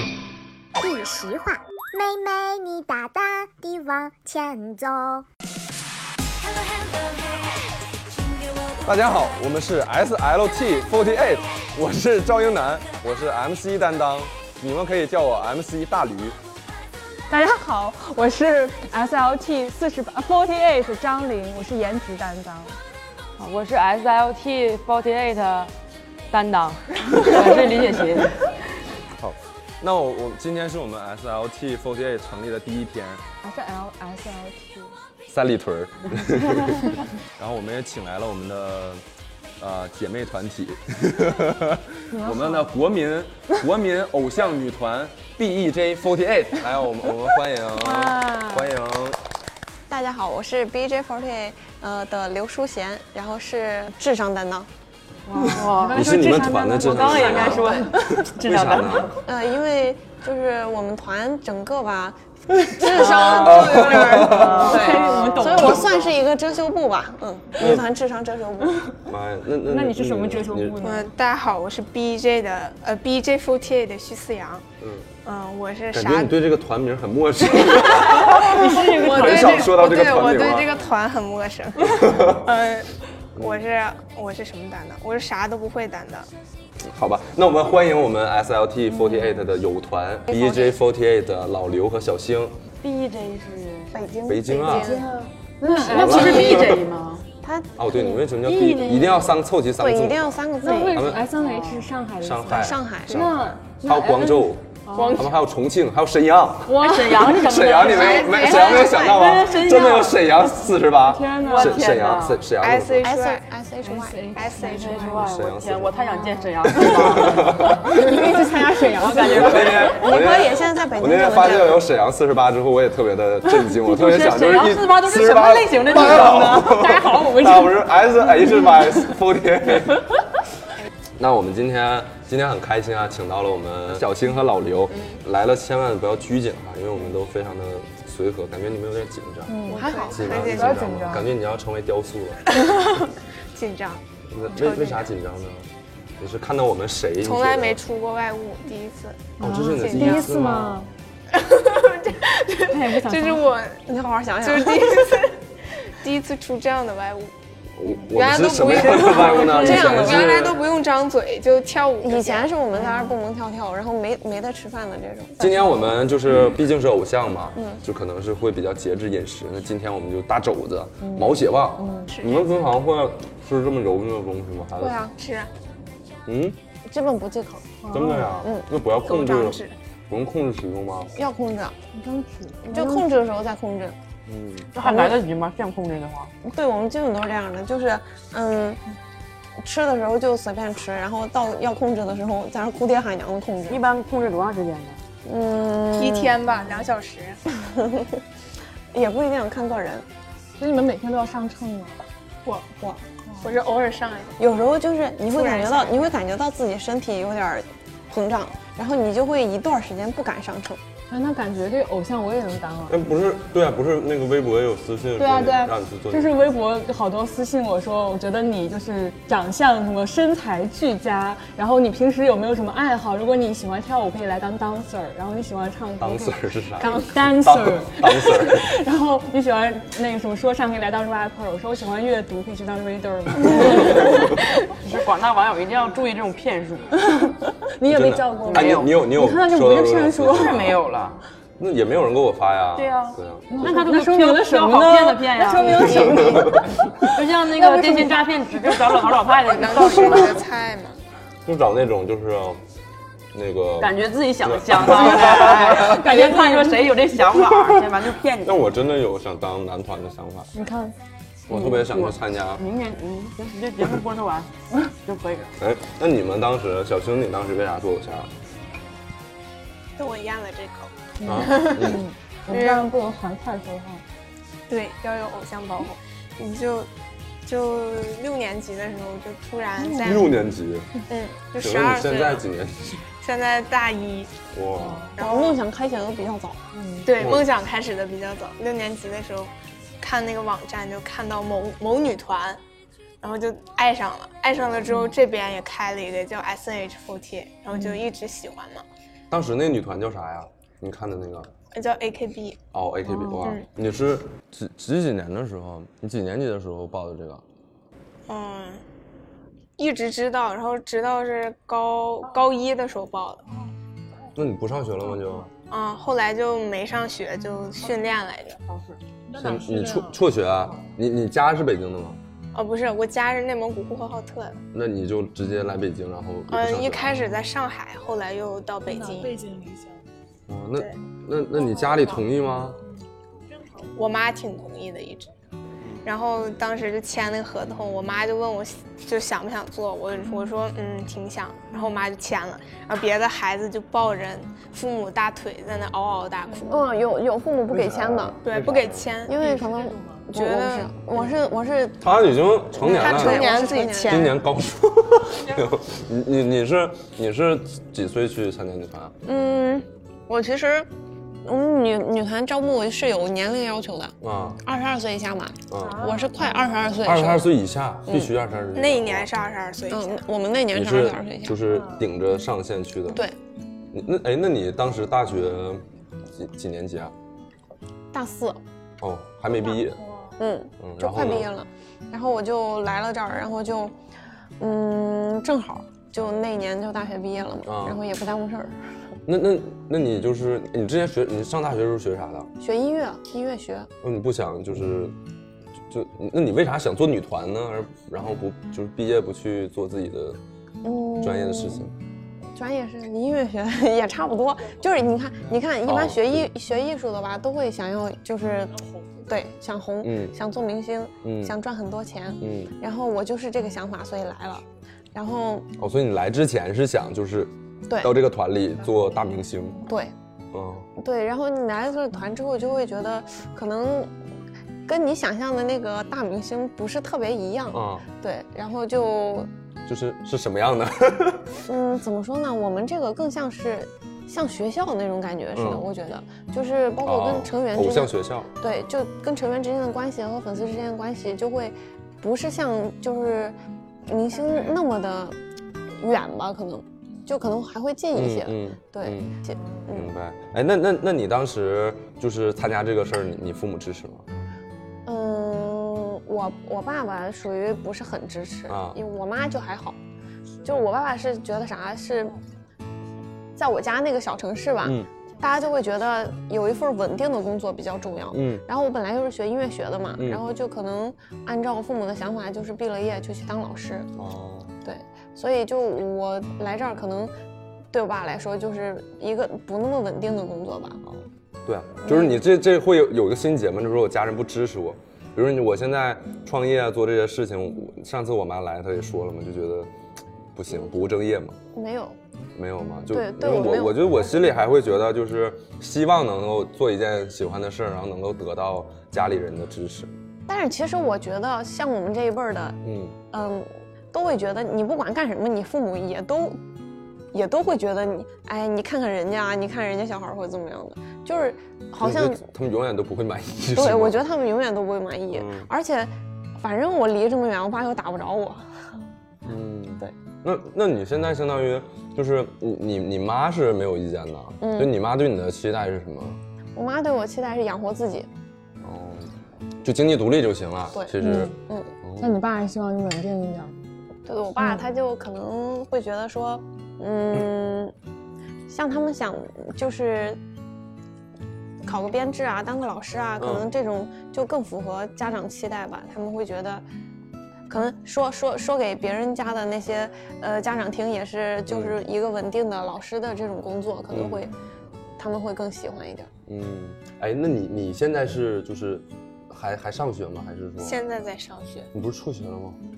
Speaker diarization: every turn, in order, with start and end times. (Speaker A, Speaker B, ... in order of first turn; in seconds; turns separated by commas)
Speaker A: 0.8-5.2, Speaker B: 8.8-16.4, Speaker C: 17.3-22.8, Speaker D: 23.4-25.7, Speaker D: 26.3-28.5, Speaker B: 29.1-33.2, Speaker C: 33.4-34.9, Speaker B: 35.3-39.0, Speaker B: 39.6-49.2, Speaker C: 42.1-42.7, Speaker C: 47.8-48.7, Speaker E: 49.9-54.7, Speaker C: 55.3-58.1, Speaker D: 55.4-56.0, Speaker B: 55.9-59.2, Speaker D: 56.8-59.2, Speaker E: 59.2-68.9, Speaker B: 62.8-64.7, Speaker C: 64.2-65.9, Speaker D: 64.3-65.7, Speaker B: 67.6-67.9, Speaker B: 69.0-70.8, Speaker C: 69.6-71.1, Speaker F: 70.8-74.6, Speaker B: 74.8-75.1, Speaker F: 75.2-76.3, Speaker B: 75.9-80.7, Speaker F: 77.7-86.3, Speaker C: 78.2-79.8, Speaker B: 81.8-82.5, Speaker B: 86.8-92.6, Speaker C: 88.9-89.4, Speaker E: 90.3-90.8, Speaker D: 92.8-93.9, Speaker E: 93.9-95.1, Speaker B: 94.2-95.0, Speaker C: 94.5-96.7, Speaker E: 95.6-96.8, Speaker D: 95.7-97.2, Speaker B: 95.9-96.9, Speaker E: 97.4-98.2, Speaker B: 97.8-101.3, Speaker D: 98.5-99.3, Speaker E: 99.8-101.0, Speaker C: 100.6-105.2, Speaker D: 101.4-101.9, Speaker B: 102.2-113.1, Speaker E: 102.5-103.3, Speaker F: 105.0-105.2, Speaker D: 106.7-110.4, Speaker C: 106.7-107.2, Speaker F: 107.9-109.1, Speaker C: 110.9-112.0, Speaker D: 111.4-112.4, Speaker F: 112.6-113.5, Speaker E: 113.0-114.3, Speaker C: 113.8-115.3, Speaker F: 114.3-115.1, Speaker D: 114.6-117.9, Speaker B: 115.1-115.9, Speaker C: 115.9-120.0, Speaker B: 116.6-118.3, Speaker D: 118.8-120.0, Speaker B: 119.1-130.1, Speaker E: 119.9-121.8, Speaker D: 123.7-126.8, Speaker C: 126.0-129.0, Speaker B: 131.2-142.5, Speaker F: 134.9-135.2, Speaker C: 139.5-141.3, Speaker E: 139.7-140.2, Speaker F: 139.7-140.8, Speaker F: 142.5-144.0, Speaker B: 144.3-147.8, Speaker F: 144.5-145.0, Speaker F: 147.2-150.3, Speaker B: 149.4-150.8, Speaker C: 149.4-150.9, Speaker F: 151.3-153.9, Speaker C: 152.7-153.5, Speaker E: 153.9-155.1, Speaker F: 154.4-157.3, Speaker B: 157.8-160.6, Speaker F: 157.9-162.5, Speaker E: 158.9-160.4, Speaker E: 162.0-165.9, Speaker C: 162.7-163.1, Speaker B: 165.4-175.0, Speaker E: 167.5-167.8, Speaker C: 171.0-172.1, Speaker F: 172.1-172.5, Speaker E: 174.8-175.2, Speaker F: 175.2-175.5, Speaker B: 176.2-176.6, Speaker E: 176.9-177.8, Speaker C: 177.8-178.3, Speaker B: 177.9-181.1, Speaker E: 178.3-178.7, Speaker F: 179.0-179.7, Speaker E: 181.2-181.8, Speaker C: 181.9-183.0, Speaker E: 182.6-184.0, Speaker B: 184.2-184.7, Speaker D: 184.7-186.3, Speaker E: 184.8-185.2, Speaker E: 186.4-188.8, Speaker E: 189.6-193.8, Speaker D: 193.7-195.0, Speaker E: 195.2-196.4, Speaker F: 195.9-197.4, Speaker E: 197.5-198.2, Speaker E: 198.9-200.1, Speaker C: 200.6-202.0, Speaker F: 203.4-204.4, Speaker E: 204.4-210.8, Speaker F: 205.3-206.1, Speaker C: 211.1-213.0, Speaker B: 212.9-216.5, Speaker C: 215.2-234.4, Speaker B: 226.0-228.7, Speaker D: 234.8-236.9, Speaker C: 237.0-240.7, Speaker B: 237.8-240.8, Speaker D: 238.5-238.9, Speaker D: 240.4-241.2, Speaker B: 241.6-243.7, Speaker D: 242.8-245.9, Speaker C: 243.5-246.7, Speaker F: 245.7-246.4, Speaker B: 245.8-247.1, Speaker D: 247.0-250.4, Speaker C: 247.5-248.3, Speaker F: 249.4-251.0, Speaker B: 251.4-252.6, Speaker B: 253.3-256.0, Speaker D: 253.8-258.6, Speaker C: 255.0-256.9, Speaker B: 257.3-260.5, Speaker C: 260.5-260.9, Speaker B: 261.5-262.6, Speaker D: 261.5-265.5, Speaker B: 265.6-268.3, Speaker F: 270.0-272.0, Speaker C: 271.2-274.0, Speaker B: 271.2-272.0, Speaker F: 272.5-272.9, Speaker F: 274.7-276.9, Speaker F: 277.4-280.3, Speaker B: 280.0-280.9, Speaker F: 281.1-282.4, Speaker B: 281.6-283.1, Speaker F: 283.2-284.4, Speaker B: 284.5-285.1, Speaker C: 284.8-285.1, Speaker F: 285.1-285.6, Speaker E: 285.2-286.6, Speaker C: 286.7-287.1, Speaker F: 287.0-292.6, Speaker B: 287.2-287.5, Speaker F: 293.2-298.8, Speaker B: 299.3-301.5, Speaker F: 301.7-302.6, Speaker B: 302.7-307.4, Speaker C: 303.1-303.4, Speaker F: 303.4-303.7, Speaker F: 308.3-308.8, Speaker F: 309.8-313.4, Speaker B: 314.3-315.5, Speaker F: 315.7-318.6, Speaker B: 319.3-322.2, Speaker F: 322.5-324.6, Speaker B: 324.7-327.3, Speaker F: 326.5-329.4, Speaker B: 330.5-332.8, Speaker F: 333.9-335.3, Speaker F: 336.0-346.9, Speaker E: 346.7-348.4, Speaker B: 347.7-349.1, Speaker F: 348.4-349.6, Speaker E: 349.2-352.0, Speaker F: 350.3-350.9, Speaker B: 352.0-359.1, Speaker E: 352.7-354.3, Speaker F: 352.8-354.3, Speaker E: 359.2-360.9, Speaker E: 361.4-367.5, Speaker B: 364.2-364.6, Speaker B: 365.7-366.2, Speaker B: 367.0-369.3, Speaker E: 368.1-368.3, Speaker F: 368.7-370.2, Speaker E: 369.9-371.7, Speaker B: 370.7-373.2, Speaker E: 373.1-373.4, Speaker B: 373.9-377.1, Speaker E: 378.1-378.6, Speaker B: 379.0-380.1, Speaker E: 380.4-383.9, Speaker B: 380.8-381.5, Speaker E: 384.6-388.8, Speaker B: 387.6-388.0, Speaker B: 389.2-392.5, Speaker E: 392.6-393.9, Speaker B: 394.0-395.1, Speaker B: 395.9-400.4, Speaker E: 400.8-401.9, Speaker B: 401.2-401.9, Speaker E: 402.5-415.7, Speaker B: 405.9-406.5, Speaker B: 410.0-410.4, Speaker B: 411.2-411.6, Speaker B: 412.4-412.7, Speaker B: 415.8-419.8, Speaker E: 417.9-418.1, Speaker E: 419.8-420.1, Speaker B: 420.5-420.9, Speaker E: 421.0-424.1, Speaker E: 424.9-429.5, Speaker B: 427.7-428.0, Speaker B: 429.9-431.6, Speaker E: 431.6-443.6, Speaker B: 435.5-435.9, Speaker B: 437.0-438.5, Speaker E: 444.1-445.4, Speaker E: 446.0-450.1, Speaker B: 448.1-449.4, Speaker B: 449.9-454.2, Speaker E: 455.1-460.0, Speaker B: 458.7-459.0, Speaker E: 460.6-462.4, Speaker E: 463.6-474.1, Speaker B: 464.8-465.1, Speaker B: 468.3-468.6, Speaker B: 470.1-470.4, Speaker B: 474.1-474.7, Speaker E: 474.8-477.3, Speaker E: 477.9-481.0, Speaker B: 481.0-489.9, Speaker E: 482.0-482.4, Speaker B: 490.5-491.6, Speaker E: 491.7-492.2, Speaker B: 492.6-500.1, Speaker E: 493.1-494.2, Speaker E: 500.5-502.8, Speaker B: 502.8-503.2, Speaker E: 503.3-506.6, Speaker E: 507.3-512.4, Speaker B: 512.0-514.3, Speaker E: 513.7-518.9, Speaker B: 515.3-515.7, Speaker B: 519.5-526.4, Speaker E: 524.6-524.9, Speaker E: 526.8-528.3, Speaker B: 528.8-529.3, Speaker B: 529.8-532.3, Speaker E: 531.0-531.9, Speaker C: 531.2-531.5, Speaker C: 532.2-533.8, Speaker E: 534.2-537.9, Speaker E: 538.7-540.4, Speaker E: 541.8-546.8, Speaker B: 543.4-543.7, Speaker E: 547.7-554.5, Speaker B: 551.7-552.0, Speaker B: 554.1-554.4, Speaker E: 555.2-556.3, Speaker B: 556.5-561.0, Speaker F: 560.8-561.9, Speaker B: 561.9-562.8